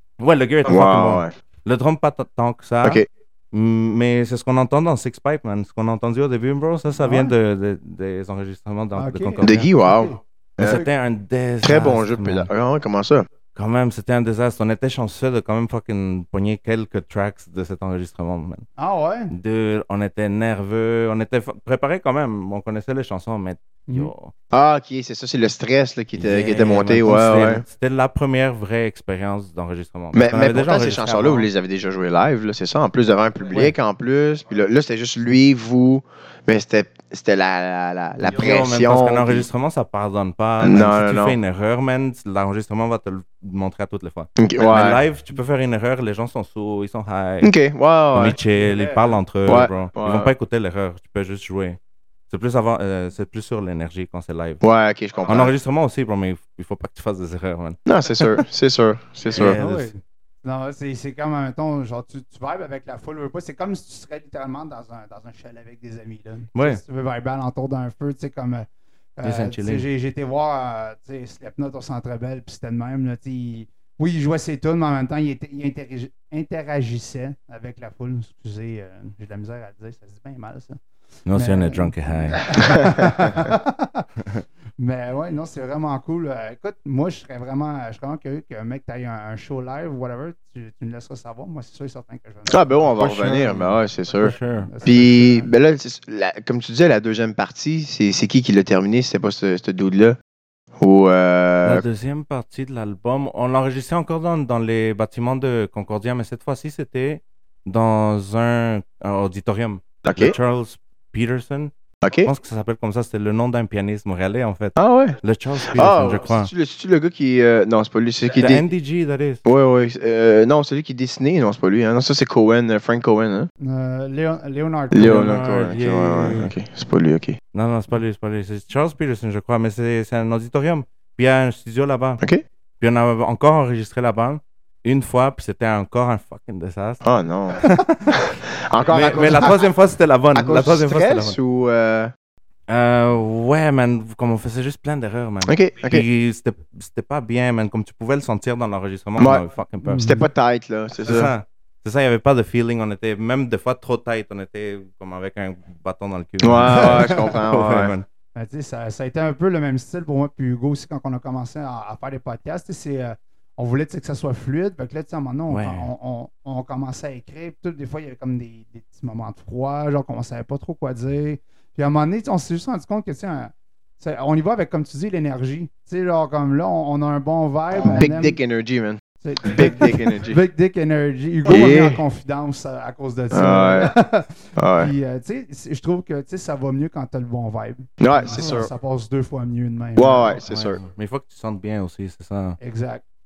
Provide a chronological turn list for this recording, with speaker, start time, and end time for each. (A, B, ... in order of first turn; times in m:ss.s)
0:00.2-0:09.7 A
0:00.6-0:01.3 B
0:06.9-0:07.3 C
0:09.0-0:10.9 C
0:09.4-0:10.8 B
0:10.6-0:12.5 A
0:11.6-0:13.3 B
0:13.5-0:18.6 A
0:18.8-0:19.3 C
0:19.3-0:24.3 A
0:24.5-0:27.6 B
0:26.2-0:31.5 A
0:30.1-0:39.4 B
0:38.2-0:47.5 A
0:40.6-0:41.4 B
0:44.4-0:45.0 B
0:47.4-0:48.4 B
0:48.1-0:51.8 A
0:48.5-0:49.0 C
0:49.4-0:50.3 B
0:52.3-0:54.6 A
0:54.6-0:55.5 B
0:55.3-0:57.8 A
0:57.8-0:59.6 B
0:59.3-0:59.9 A
0:59.4-1:20.8 C
1:06.5-1:06.8 A
1:09.2-1:09.9 A
1:21.3-1:23.0 A
1:21.3-1:24.1 C
1:22.6-1:23.3 B
1:24.8-1:32.9 C
1:32.5-1:40.2 B
1:33.0-1:34.7 A
1:34.7-1:35.5 C
1:40.8-1:41.8 B
1:41.6-1:51.7 A
1:50.0-1:50.4 B
1:52.0-1:52.3 B
1:52.2-1:56.5 A
1:54.8-1:58.7 B
1:58.4-1:59.4 A
1:59.4-2:03.5 B
2:03.6-2:05.4 C
2:04.9-2:07.4 B
2:05.0-2:06.5 A
2:07.5-2:12.2 A
2:12.8-2:17.0 A
2:17.0-2:19.6 B
2:17.6-2:21.4 A
2:20.3-2:22.1 B
2:22.7-2:30.2 A
2:25.4-2:26.0 B
2:29.2-2:29.4 B
2:29.8-2:30.2 C
2:30.0-2:31.3 B
2:31.0-2:38.0 A
2:36.4-2:37.9 B
2:36.6-2:37.2 C
2:38.3-2:58.4 C
2:45.5-2:45.9 A
2:57.8-3:00.4 B
2:59.2-3:10.4 C
3:01.4-3:02.0 B
3:03.3-3:03.9 B
3:04.6-3:04.9 B
3:08.0-3:08.7 B
3:10.0-3:10.8 B
3:10.4-3:12.6 A
3:12.6-3:13.0 C